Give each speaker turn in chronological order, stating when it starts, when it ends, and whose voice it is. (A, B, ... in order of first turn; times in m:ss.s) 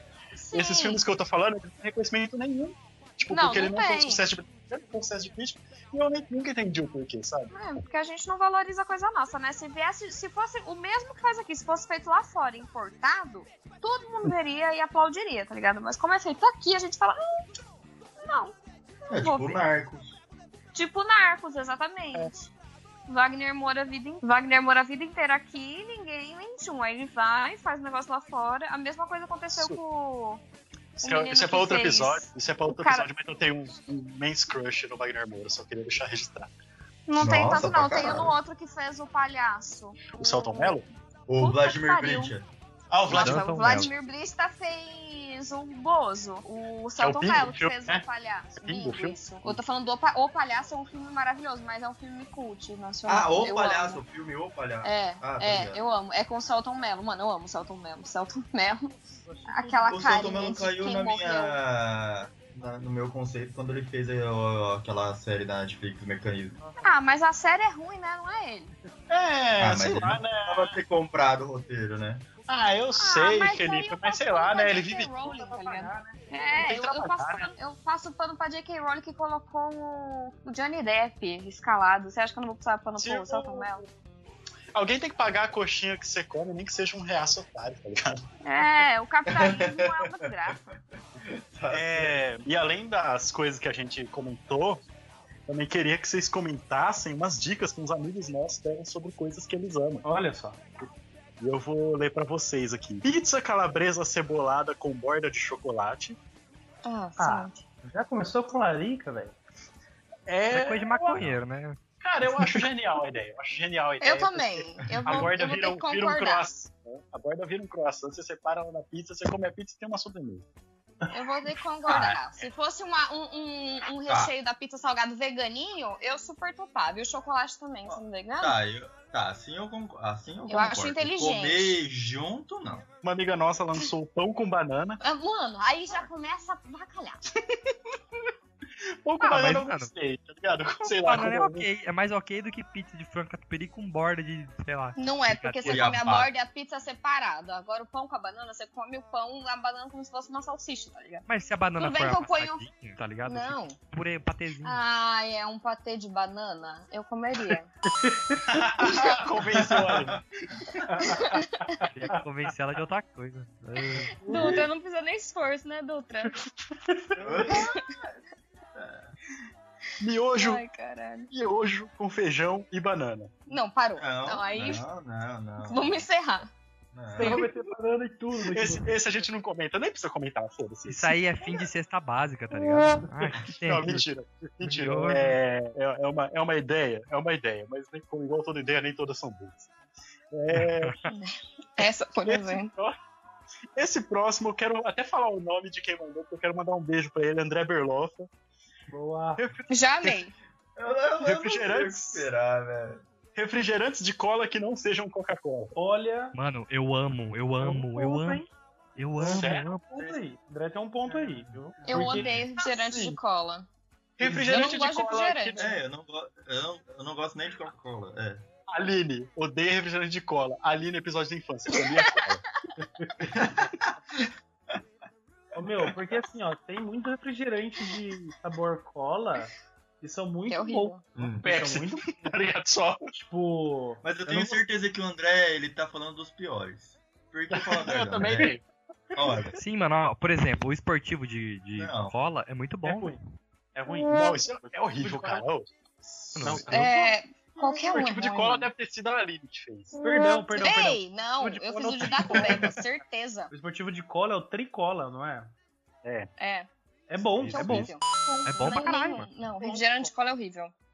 0:00.3-0:01.0 A
0:00.5-0:07.5 B
0:03.3-0:04.2 A
0:07.5-0:17.5 A
0:18.2-0:18.6 A
0:19.1-0:19.6 A
0:19.1-0:20.2 C
0:20.7-0:22.5 A
0:23.1-0:30.4 A
0:29.5-0:29.8 B
0:31.0-0:36.5 B
0:31.0-0:33.1 A
0:37.1-0:40.8 A
0:37.2-0:38.4 C
0:40.2-0:40.9 B
0:41.3-0:42.5 C
0:41.4-0:42.3 A
0:42.9-0:43.9 B
0:43.1-0:54.0 A
0:43.1-0:43.9 D
0:47.0-0:48.0 B
0:48.6-0:49.6 B
0:53.1-0:55.8 C
0:54.8-0:58.9 A
0:59.2-1:00.3 E
0:59.5-1:01.6 A
0:59.8-1:06.6 C
1:06.6-1:06.9 E
1:06.8-1:08.7 A
1:09.1-1:10.8 B
1:09.6-1:12.3 C
1:12.5-1:15.1 B
1:13.0-1:23.8 A
1:15.1-1:16.6 E
1:16.6-1:17.5 B
1:23.0-1:23.9 B
1:24.7-1:28.2 B
1:28.4-1:30.6 A
1:29.3-1:32.2 C
1:31.7-1:34.8 B
1:35.5-1:40.0 B
1:40.0-1:40.7 E
1:41.4-1:46.2 B
1:46.8-1:47.6 A
1:47.2-1:49.4 E
1:50.3-1:51.2 B
1:50.5-1:51.8 D
1:52.0-2:00.5 B
1:54.0-1:56.5 A
1:55.0-1:55.3 C
2:01.1-2:08.6 A
2:01.9-2:02.2 C
2:04.1-2:04.3 C
2:07.9-2:12.9 C
2:10.5-2:11.8 A
2:13.0-2:15.0 B
2:15.0-2:17.3 A
2:19.0-2:21.7 B
2:19.2-2:19.9 D
2:21.0-2:25.9 D
2:25.0-2:31.3 A
2:25.6-2:26.3 C
2:31.3-2:34.8 D
2:31.8-2:32.7 A
2:33.2-2:33.8 A
2:34.6-2:37.7 A
2:37.9-2:39.1 E
2:38.5-2:40.2 B
2:39.6-2:40.2 C
2:40.9-2:42.2 E
2:41.0-2:41.8 A
2:41.9-2:44.1 D
2:44.0-2:44.6 E
2:44.2-2:46.4 A
2:44.3-2:44.7 C
2:46.8-2:47.2 E
2:47.2-2:48.0 C
2:48.8-2:49.1 C
2:50.0-2:50.6 B
2:50.3-2:51.3 A
2:51.3-2:53.3 B
2:53.5-2:54.9 A
2:54.0-2:56.1 C
2:55.6-2:56.5 A
2:56.9-2:57.5 C
2:57.2-2:58.9 E
2:57.2-2:57.4 B
2:58.5-3:01.2 B
3:00.9-3:04.0 D
3:03.6-3:09.7 B
3:04.6-3:05.4 D
3:10.3-3:11.0 B
3:10.6-3:10.9 D
3:11.1-3:12.7 A
3:12.3-3:12.9 B
3:13.8-3:18.3 B
3:18.9-3:19.5 E
3:19.4-3:20.2 B
3:19.7-3:20.3 A
3:20.8-3:23.0 C
3:21.2-3:22.3 B
3:23.4-3:25.7 B
3:25.7-3:26.4 E
3:26.3-3:28.4 D
3:27.6-3:28.5 E
3:29.0-3:30.0 D
3:29.2-3:29.6 B
3:29.3-3:33.2 E
3:31.9-3:33.7 A
3:31.9-3:32.4 C
3:34.2-3:35.8 B
3:34.2-3:34.7 E
3:34.4-3:35.7 A
3:35.6-3:38.5 C
3:38.7-3:42.4 B
3:41.7-3:42.1 A
3:42.8-3:43.1 E
3:43.3-3:44.3 C
3:45.6-3:52.1 E
3:50.5-3:51.0 A
3:51.2-3:51.5 C
3:51.4-3:53.1 B
3:53.1-3:54.6 E
3:54.0-3:58.6 C
3:57.5-3:58.6 B
3:59.2-3:59.6 C
3:59.6-4:03.2 D
4:01.8-4:02.2 C
4:02.8-4:03.2 E
4:03.8-4:05.4 E
4:04.1-4:05.7 B
4:06.4-4:06.7 E
4:06.4-4:06.9 D
4:06.4-4:07.0 B
4:06.7-4:08.7 A
4:07.6-4:10.0 B
4:10.0-4:12.8 E
4:10.5-4:13.5 A
4:13.5-4:15.5 E
4:16.0-4:16.3 B
4:16.4-4:16.7 A
4:17.1-4:17.9 E
4:17.2-4:17.9 C
4:17.5-4:20.7 A
4:18.5-4:19.3 D
4:18.7-4:20.1 E